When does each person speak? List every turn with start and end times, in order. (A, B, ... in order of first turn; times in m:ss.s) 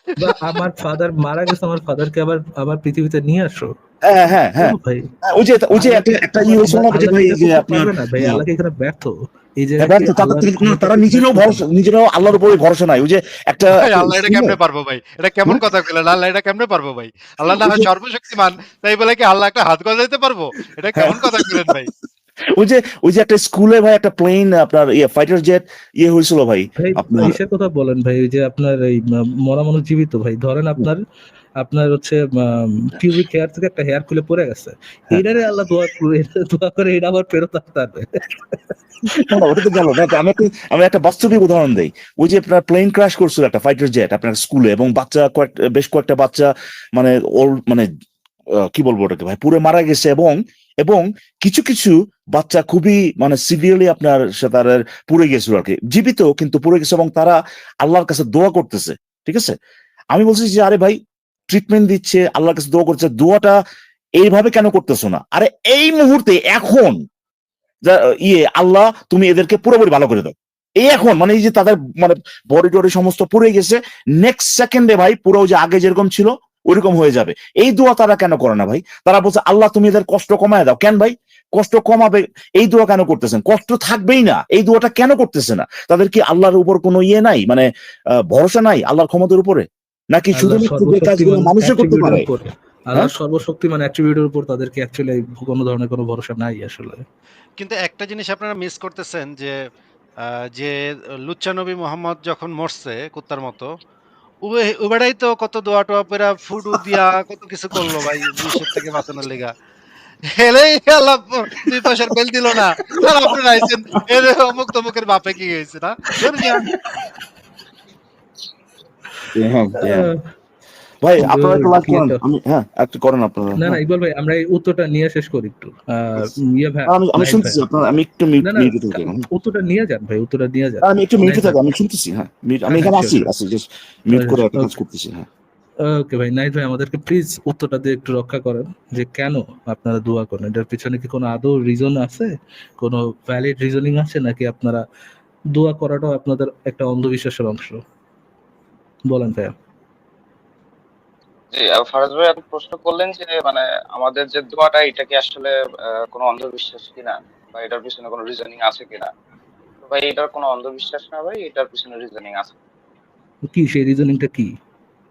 0:00.2-0:03.7 A
0:04.0-0:08.4 B
0:04.6-0:05.1 A
0:05.7-0:11.6 A
0:09.8-0:14.6 B
0:13.7-0:21.9 C
0:17.5-0:17.9 B
0:21.0-0:21.8 B
0:22.5-0:27.4 B
0:26.8-0:31.0 A
0:31.6-0:39.4 A
0:39.1-0:47.9 B
0:48.6-0:59.5 B
1:00.1-1:01.0 B
1:01.5-1:03.6 B
1:04.2-1:07.0 B
1:07.8-1:27.7 B
1:28.2-1:32.3 B
1:30.4-1:37.0 A
1:37.6-1:39.6 C
1:40.2-1:43.7 C
1:44.4-1:49.5 C
1:50.4-1:56.6 C
1:59.3-2:00.1 B
1:59.8-2:00.2 A
2:01.0-2:03.8 B
2:01.2-2:02.2 A
2:03.6-2:07.6 A
2:06.9-2:09.3 B
2:08.4-2:11.6 A
2:10.8-2:15.3 B
2:12.7-2:13.3 A
2:14.1-2:14.7 A
2:15.8-2:24.8 A
2:25.5-2:27.8 A
2:29.1-2:29.5 A
2:31.5-2:39.1 D
2:39.8-2:42.5 D
2:43.5-2:44.5 A